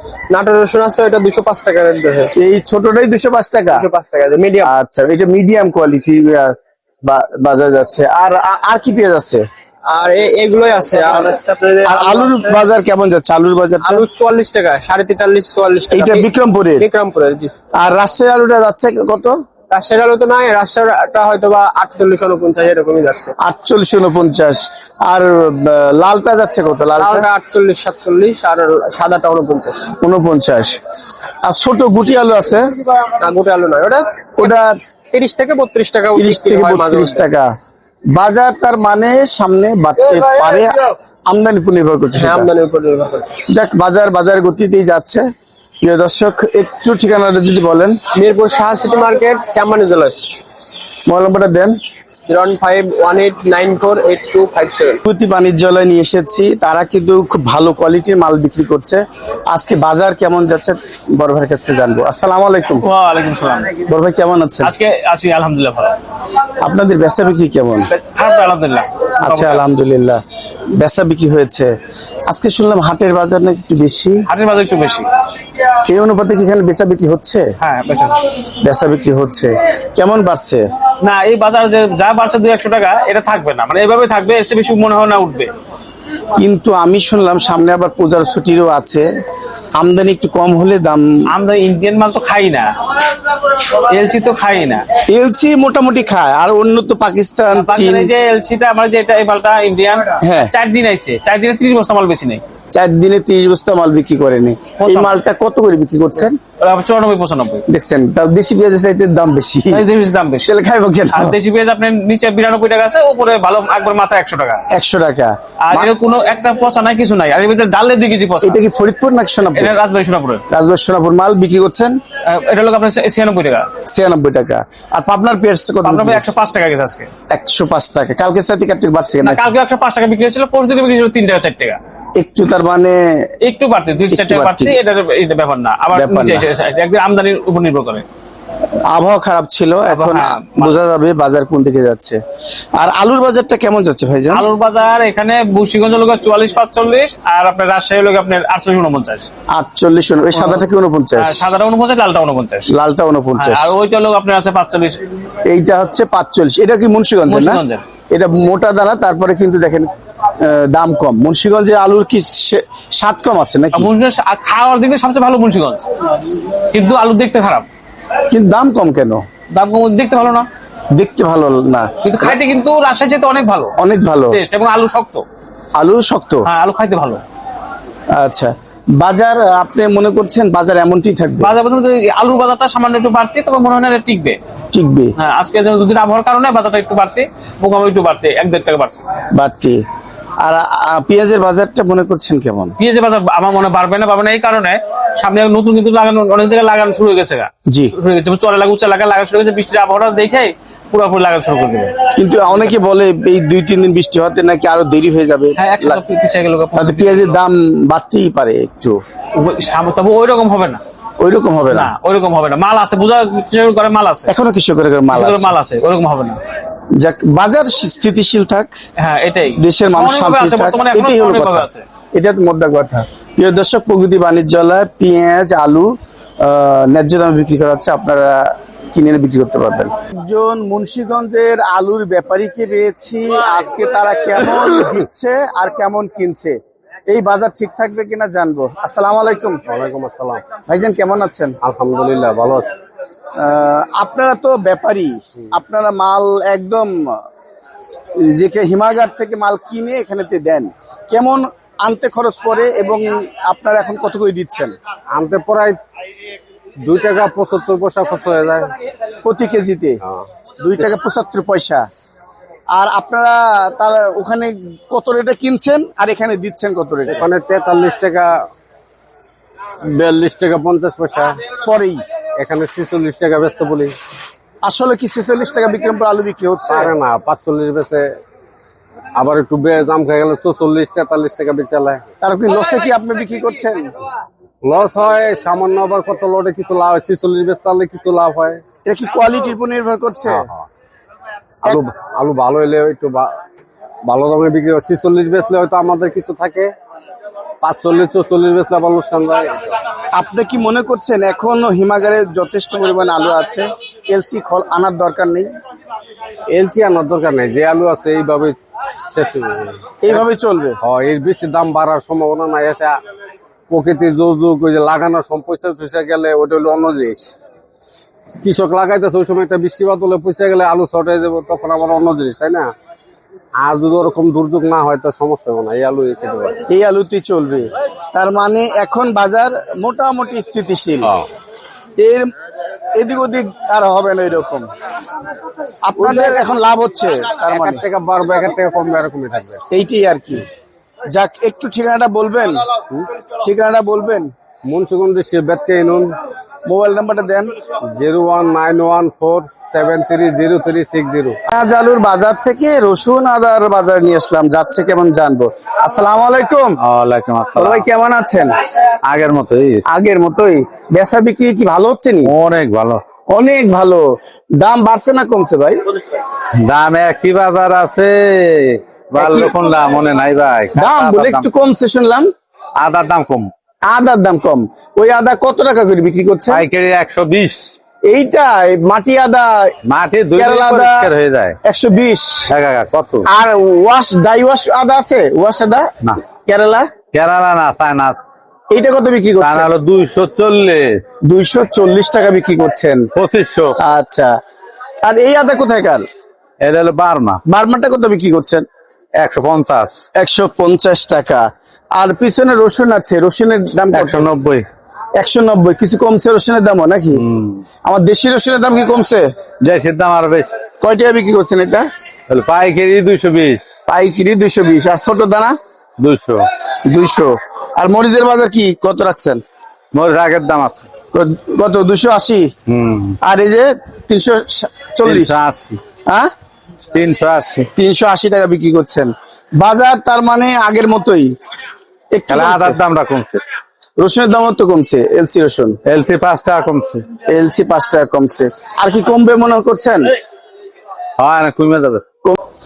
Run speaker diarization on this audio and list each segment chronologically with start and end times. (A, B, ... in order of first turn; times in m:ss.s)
0:00.3-0:02.3 A
0:02.3-0:03.8 B
0:03.8-0:04.6 A
0:04.6-0:09.4 B
0:09.9-0:10.8 A
0:10.8-0:11.2 C
0:11.1-0:14.0 B
0:11.4-0:11.7 A
0:14.1-0:15.9 A
0:15.9-0:16.9 B
0:16.8-0:17.5 A
0:17.8-0:19.3 B
0:19.8-0:23.1 A
0:23.4-0:27.3 B
0:27.0-0:29.8 A
0:30.0-0:30.8 B
0:31.4-0:32.7 B
0:33.2-0:34.0 A
0:34.4-0:34.7 B
0:35.1-0:37.2 A
0:36.1-0:37.5 B
0:38.1-0:42.5 B
0:42.6-0:43.3 A
0:43.5-0:45.2 B
0:45.8-0:48.0 B
0:48.2-0:50.1 A
0:51.0-0:51.7 B
0:52.3-0:53.0 A
0:53.0-0:55.0 C
0:55.0-1:02.8 B
1:02.8-1:03.8 C
1:03.8-1:04.7 B
1:04.6-1:06.0 C
1:06.6-1:07.9 B
1:07.9-1:09.7 C
1:09.2-1:10.2 B
1:10.8-1:11.7 B
1:12.3-1:14.2 B
1:14.3-1:15.1 C
1:15.8-1:17.5 B
1:17.6-1:18.2 C
1:18.6-1:20.6 B
1:21.0-1:25.5 C
1:26.4-1:29.1 B
1:29.8-1:31.0 B
1:31.3-1:32.7 C
1:33.5-1:34.8 C
1:35.1-1:38.1 B
1:37.5-1:42.4 C
1:40.2-1:40.5 B
1:42.7-1:46.4 B
1:44.8-1:45.2 C
1:46.6-1:47.6 C
1:47.7-1:49.8 B
1:49.7-1:50.5 C
1:50.4-1:51.3 B
1:51.1-1:54.6 C
1:54.7-1:55.9 B
1:55.6-1:58.6 C
1:58.4-1:59.7 B
1:59.6-2:00.4 C
2:00.5-2:01.9 B
2:02.2-2:03.7 C
2:03.8-2:06.3 B
2:05.8-2:07.1 C
2:07.3-2:09.5 B
2:09.2-2:11.8 C
2:12.2-2:13.3 B
2:13.4-2:18.0 C
2:14.1-2:14.8 B
2:15.9-2:16.4 B
2:18.9-2:22.2 B
2:19.9-2:20.7 C
2:22.8-2:24.4 B
2:24.3-2:29.3 C
2:29.5-2:31.5 B
2:30.3-2:30.6 C
2:31.2-2:32.7 C
2:32.7-2:33.7 B
2:33.4-2:35.0 C
2:35.4-2:39.9 B
2:37.3-2:37.8 C
2:40.4-2:43.9 B
2:43.7-2:45.9 C
2:46.7-2:47.6 C
2:48.3-2:49.2 B
2:49.5-2:50.5 C
2:50.9-2:52.4 B
2:52.0-2:53.7 C
2:53.8-2:54.4 B
2:54.3-2:55.2 C
2:55.8-2:56.5 B
2:56.4-2:57.2 C
2:58.1-3:01.5 B
3:01.4-3:04.4 C
3:04.7-3:05.1 B
3:05.2-3:09.0 C
3:09.3-3:09.8 B
3:10.4-3:12.8 B
3:12.8-3:21.9 C
3:17.7-3:17.9 B
3:22.1-3:26.0 B
3:25.6-3:27.4 C
3:26.7-3:29.0 B
3:29.3-3:30.8 C
3:31.2-3:31.9 B
3:31.7-3:34.3 C
3:34.3-3:35.5 B
3:35.1-3:36.4 C
3:37.0-3:38.7 B
3:39.0-3:41.8 C
3:39.6-3:59.6 B
3:59.7-4:00.4 D
4:00.6-4:01.6 B
4:01.6-4:02.7 D
4:03.4-4:07.2 B
4:07.9-4:14.7 B
4:15.1-4:15.8 D
4:16.8-4:18.7 D
4:19.2-4:20.0 B
4:20.6-4:21.8 B
4:22.7-4:27.2 B
4:27.1-4:28.3 D
4:29.8-4:31.4 D
4:31.6-4:32.0 B
4:32.4-4:33.9 D
4:34.6-4:36.9 B
4:36.7-4:38.1 D
4:39.1-4:42.0 D
4:42.2-4:44.0 B
4:44.6-4:48.6 D
4:48.8-4:50.5 B
4:50.3-4:50.6 D
4:51.6-4:53.3 D
4:54.1-4:56.7 D
4:57.6-4:59.8 D
5:00.2-5:05.5 B
5:06.5-5:08.6 D
5:09.1-5:10.2 D
5:10.0-5:10.8 B
5:10.8-5:13.0 D
5:13.7-5:17.3 D
5:18.4-5:22.7 D
5:23.6-5:26.6 D
5:26.7-5:31.2 B
5:32.0-5:32.3 B
5:32.9-5:34.7 B
5:35.8-5:37.8 B
5:36.0-5:36.5 D
5:37.5-5:39.6 D
5:39.7-5:40.4 B
5:41.1-5:42.6 B
5:43.4-5:44.3 B
5:44.6-5:46.1 D
5:46.6-5:47.5 B
5:47.9-5:51.4 D
5:51.4-5:56.8 B
5:56.8-5:57.9 E
5:57.6-5:58.5 B
5:59.0-5:59.8 E
5:59.9-6:02.3 B
6:02.2-6:03.0 E
6:03.3-6:04.0 B
6:04.6-6:05.8 B
6:06.6-6:11.5 E
6:09.2-6:09.5 B
6:10.7-6:12.3 B
6:12.8-6:13.5 E
6:13.8-6:16.6 B
6:16.5-6:17.7 E
6:18.0-6:19.7 B
6:19.8-6:21.6 E
6:20.4-6:21.1 B
6:21.6-6:22.5 B
6:22.5-6:23.2 E
6:23.3-6:26.9 B
6:27.1-6:28.2 E
6:28.7-6:29.7 B
6:29.4-6:31.0 E
6:31.2-6:33.0 B
6:33.1-6:33.8 E
6:33.8-6:34.3 B
6:35.0-6:36.1 B
6:36.6-6:37.4 E
6:37.5-6:38.6 B
6:39.2-6:40.0 E
6:40.2-6:41.4 B
6:41.9-6:44.3 B
6:43.9-6:44.6 E
6:45.2-6:47.2 B
6:47.2-6:47.6 E
6:47.8-6:49.3 B
6:49.6-6:50.5 E
6:50.8-6:51.8 B
6:52.3-6:53.7 E
6:53.9-6:55.5 B
6:56.0-6:56.4 E
6:56.9-6:59.4 B
6:59.9-7:00.8 E
7:01.1-7:02.5 B
7:02.7-7:03.2 E
7:03.2-7:05.4 B
7:05.0-7:05.8 E
7:06.9-7:07.7 E
7:07.8-7:11.3 B
7:12.1-7:12.8 B
7:12.3-7:13.4 E
7:14.0-7:15.8 B
7:15.8-7:17.1 E
7:17.3-7:20.1 B
7:21.2-7:22.0 E